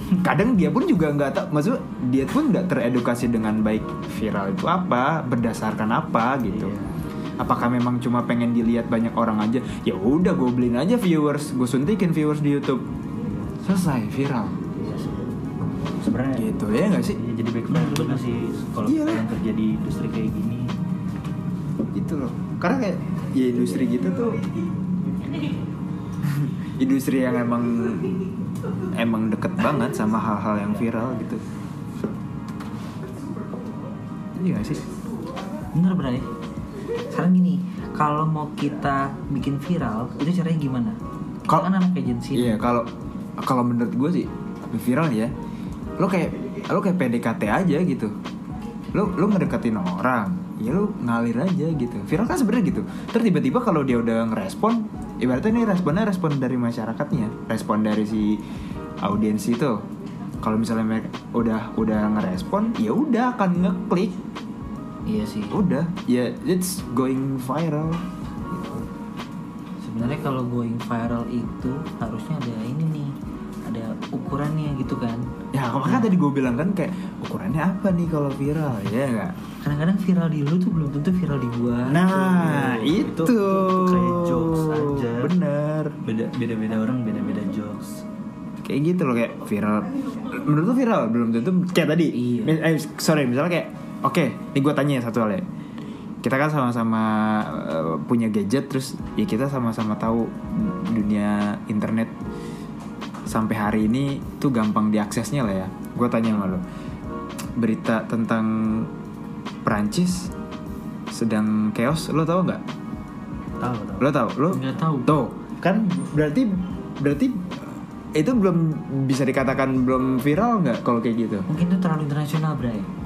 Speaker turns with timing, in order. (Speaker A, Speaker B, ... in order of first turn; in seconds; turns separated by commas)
Speaker A: 0.2-6.7, Speaker B: 6.4-7.0, Speaker A: 7.4-12.8, Speaker B: 13.2-13.5, Speaker A: 13.6-14.6, Speaker B: 14.7-15.3, Speaker B: 16.0-16.6, Speaker A: 16.3-17.2, Speaker B: 17.1-20.7, Speaker C: 17.7-18.2, Speaker A: 18.9-19.2, Speaker A: 21.9-24.4, Speaker A: 26.2-28.3, Speaker A: 28.8-31.4, Speaker A: 34.4-34.9, Speaker C: 35.7-36.3, Speaker C: 37.1-42.7, Speaker A: 42.3-45.3, Speaker A: 46.0-48.1, Speaker A: 48.9-58.4, Speaker A: 59.0-59.9, Speaker A: 60.4-64.2, Speaker C: 65.0-65.6, Speaker A: 65.5-68.8, Speaker C: 69.8-73.1, Speaker C: 73.7-75.2, Speaker A: 75.5-79.3, Speaker C: 75.8-76.1, Speaker C: 79.6-82.0, Speaker A: 81.9-86.0, Speaker B: 82.1-85.3, Speaker B: 86.0-88.0, Speaker A: 88.6-95.5, Speaker C: 92.1-92.7, Speaker A: 96.2-102.1, Speaker A: 103.3-106.6, Speaker A: 107.6-108.9, Speaker A: 109.7-110.3, Speaker A: 111.1-112.6, Speaker B: 113.6-114.1, Speaker A: 114.0-121.5, Speaker C: 114.5-115.2, Speaker C: 121.5-122.9